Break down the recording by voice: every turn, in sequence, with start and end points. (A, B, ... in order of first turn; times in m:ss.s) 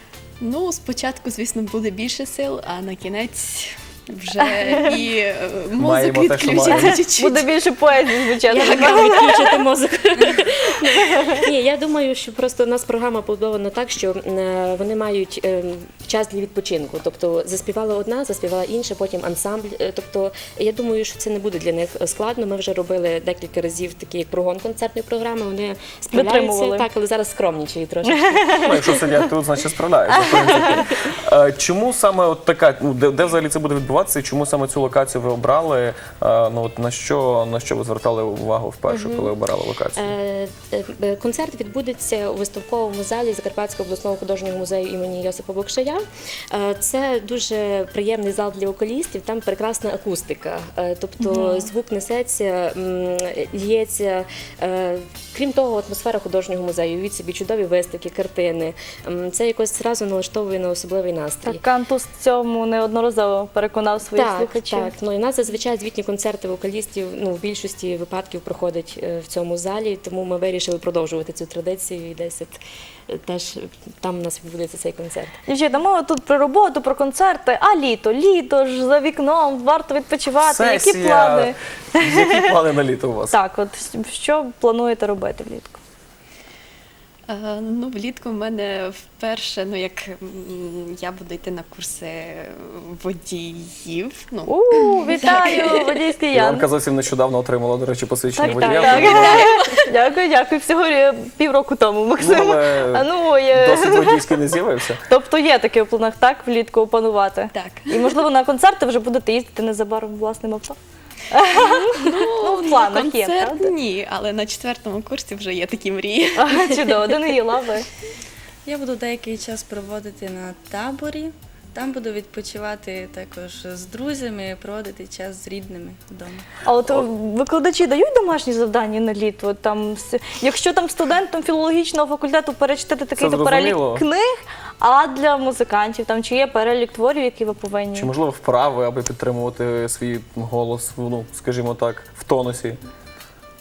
0:00.4-0:07.5 A
0:04.5-0:04.9 B
0:05.8-0:07.1 C
0:06.7-0:09.6 B
0:08.5-0:28.7 D
0:08.5-0:09.1 A
0:10.9-0:11.4 B
0:26.1-0:26.9 B
0:28.1-0:29.2 B
0:28.5-0:40.1 C
0:30.1-0:30.9 B
0:38.9-0:39.3 D
0:40.0-1:01.6 D
0:51.3-0:51.6 B
1:01.5-1:04.9 B
1:04.1-1:15.3 D
1:15.5-1:22.5 B
1:20.5-1:23.4 C
1:23.3-1:25.8 B
1:27.3-1:36.0 A
1:34.5-1:36.6 B
1:36.3-1:39.5 C
1:38.4-1:44.4 B
1:38.5-1:39.5 D
1:39.4-1:39.8 A
1:42.2-1:45.0 C
1:45.1-1:50.8 B
1:47.5-1:48.1 A
1:51.3-1:53.7 B
1:51.5-1:57.0 A
1:56.4-1:57.9 B
1:58.6-2:06.5 E
2:06.6-2:18.1 B
2:13.2-2:14.0 C
2:18.0-2:22.8 C